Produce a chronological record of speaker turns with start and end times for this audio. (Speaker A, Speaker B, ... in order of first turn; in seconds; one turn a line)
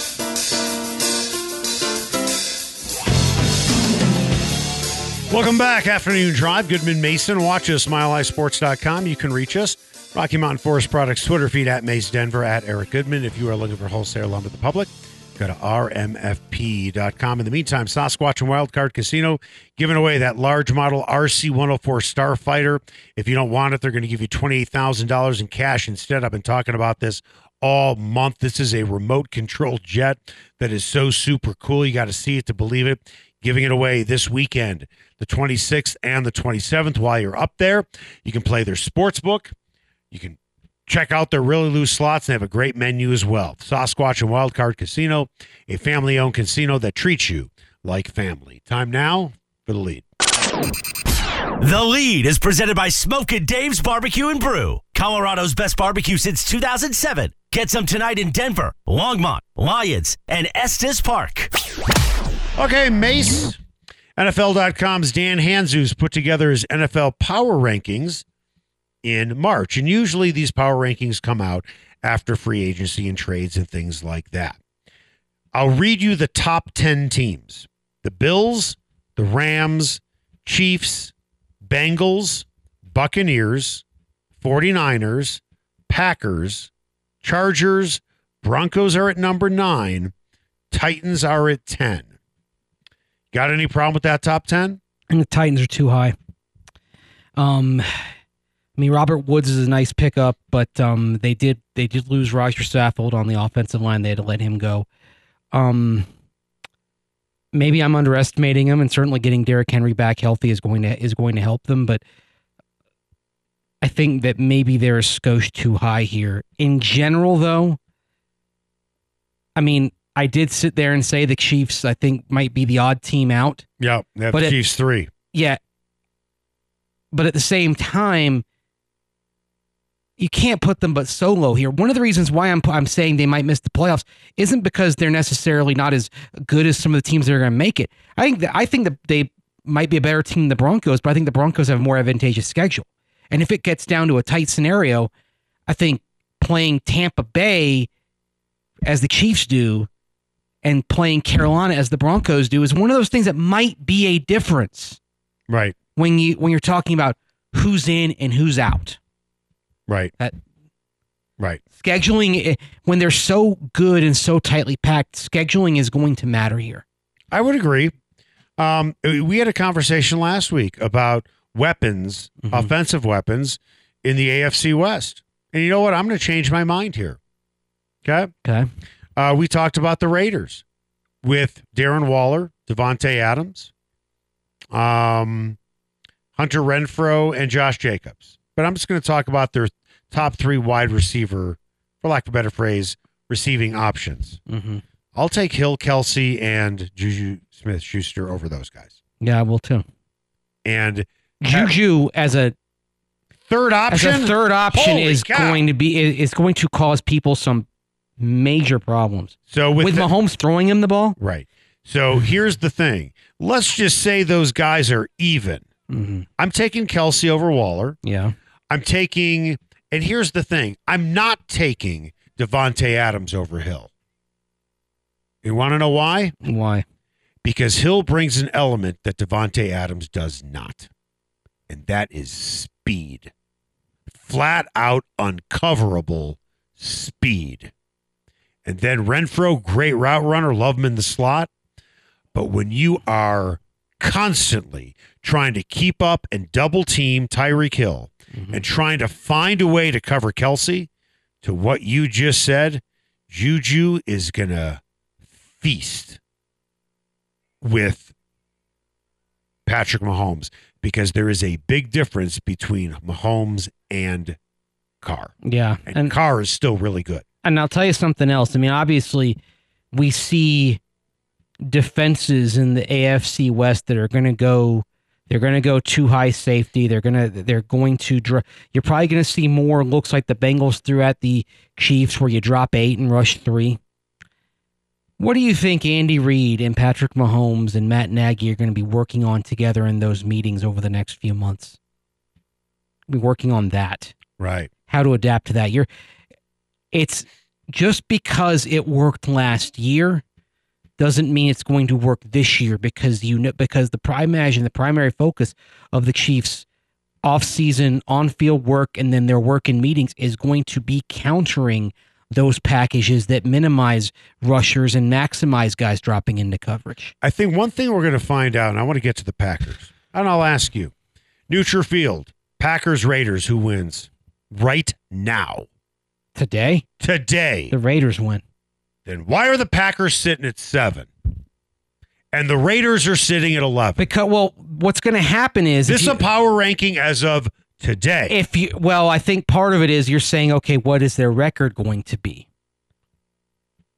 Speaker A: 5.3-39.5
Speaker A: 40.1-50.0
Speaker B: 51.6-61.5
Speaker A: 62.6-63.6
Speaker A: 64.2-68.2
Speaker A: 69.0-74.6
Speaker A: 75.5-81.1
Speaker A: 81.6-83.8
Speaker A: 84.4-86.7
Speaker A: 87.2-90.1
Speaker A: 90.7-92.1
Speaker A: 93.3-94.8
Speaker C: 95.1-96.1
Speaker C: 97.3-98.0
Speaker C: 98.8-104.8
Speaker C: 105.5-106.1
Speaker C: 107.5-112.0
Speaker C: 113.8-117.8
Speaker C: 119.5-123.6
Speaker A: 123.8-125.1
Speaker C: 125.3-125.6
Speaker C: 127.1-128.4
Speaker C: 130.2-145.1
Speaker C: 145.7-147.9
Speaker C: 148.8-149.9
Speaker C: 150.6-155.0
Speaker A: 155.5-155.8
Speaker C: 155.9-159.0
Speaker A: 159.9-160.1
Speaker C: 161.8-166.8
Speaker A: 167.3-167.9
Speaker A: 168.6-177.2
Speaker C: 172.4-172.7
Speaker A: 178.0-178.3
Speaker A: 179.2-180.6
Speaker A: 181.2-183.7
Speaker A: 184.7-185.6
Speaker A: 186.3-194.4
Speaker C: 194.5-194.8
Speaker A: 195.1-198.9
Speaker C: 199.2-199.8
Speaker A: 200.6-201.8
Speaker C: 201.4-202.5
Speaker A: 203.5-205.6
Speaker C: 203.9-207.7
Speaker C: 208.2-211.2
Speaker A: 209.5-210.1
Speaker A: 211.2-215.7
Speaker C: 215.9-216.3
Speaker A: 216.4-218.0
Speaker C: 218.0-218.3
Speaker A: 218.7-223.9
Speaker A: 225.4-226.3
Speaker C: 226.4-226.8
Speaker A: 227.4-230.9
Speaker A: 231.7-233.3
Speaker A: 234.2-237.7
Speaker A: 238.6-241.5
Speaker A: 242.3-250.9
Speaker C: 248.3-248.6
Speaker A: 251.4-254.8
Speaker A: 255.6-256.2
Speaker A: 257.6-258.1
Speaker A: 259.6-264.4
Speaker A: 265.0-265.3
Speaker C: 265.4-266.1
Speaker A: 265.9-267.2
Speaker C: 267.4-269.4
Speaker C: 269.9-270.8
Speaker C: 271.6-283.8
Speaker C: 285.2-291.8
Speaker C: 293.1-294.1
Speaker A: 294.4-294.7
Speaker C: 294.9-295.9
Speaker C: 296.9-300.2
Speaker C: 301.0-306.6
Speaker C: 307.2-317.1
Speaker A: 317.2-320.9
Speaker A: 321.5-325.7
Speaker C: 326.3-326.9
Speaker A: 327.0-327.7
Speaker C: 327.7-328.4
Speaker A: 329.1-331.1
Speaker A: 332.3-334.1
Speaker C: 334.0-336.2
Speaker A: 335.9-338.4
Speaker C: 338.3-342.4